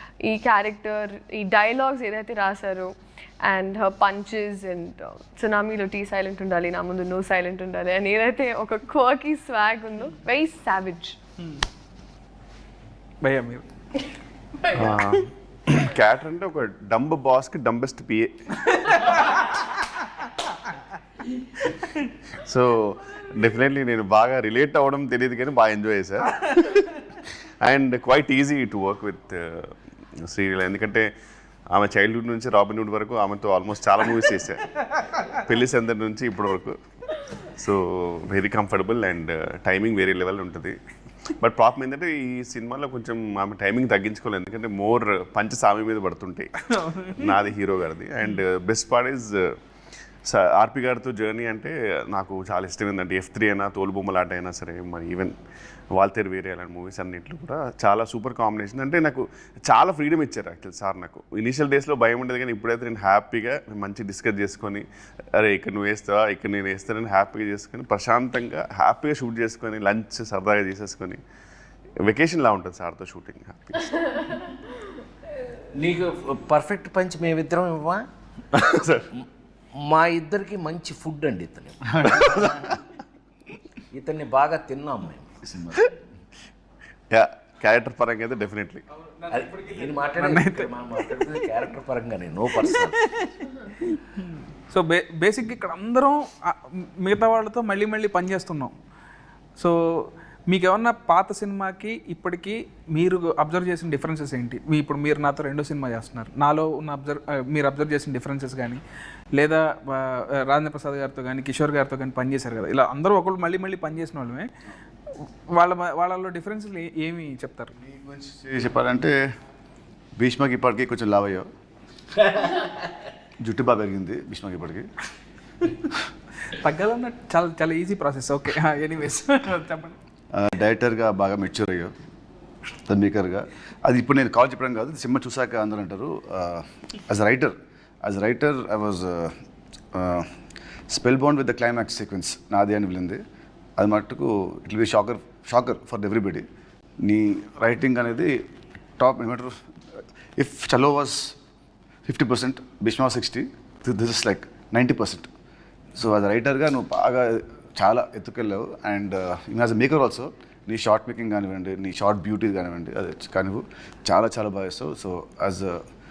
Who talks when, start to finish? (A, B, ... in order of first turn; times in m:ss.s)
0:00.2-0:11.2 A
0:13.2-0:13.6 B
0:14.7-0:18.4 C
0:18.6-0:19.5 B
0:22.4-0:27.0 C
0:27.6-0:29.7 C
0:30.2-0:31.1 C
0:31.7-0:34.7 C
0:35.2-0:40.8 C
0:41.4-0:49.3 C
0:46.7-0:47.4 B
0:50.2-0:55.3 C
0:55.9-1:11.2 C
1:12.0-1:14.6 C
1:15.7-1:18.0 D
1:18.5-1:19.1 C
1:19.8-1:22.4 D
1:21.9-1:22.8 E
1:23.9-1:25.4 D
1:25.4-1:25.9 E
1:27.1-1:28.8 C
1:29.2-1:31.5 B
1:29.3-1:33.0 D
1:32.6-1:38.7 B
1:39.6-1:48.8 B
1:49.3-1:54.5 B
1:55.2-1:57.7 B
1:57.8-1:59.1 E
2:00.2-2:01.5 E
2:02.3-2:02.6 D
2:03.4-2:04.9 E
2:06.5-2:10.0 B
2:10.3-2:11.9 E
2:12.8-2:19.3 E
2:19.9-2:20.3 E
2:20.9-2:23.2 E
2:23.8-2:26.4 E
2:27.0-2:28.4 E
2:29.0-2:29.5 E
2:30.4-2:31.4 E
2:32.0-2:35.3 E
2:35.9-2:45.8 E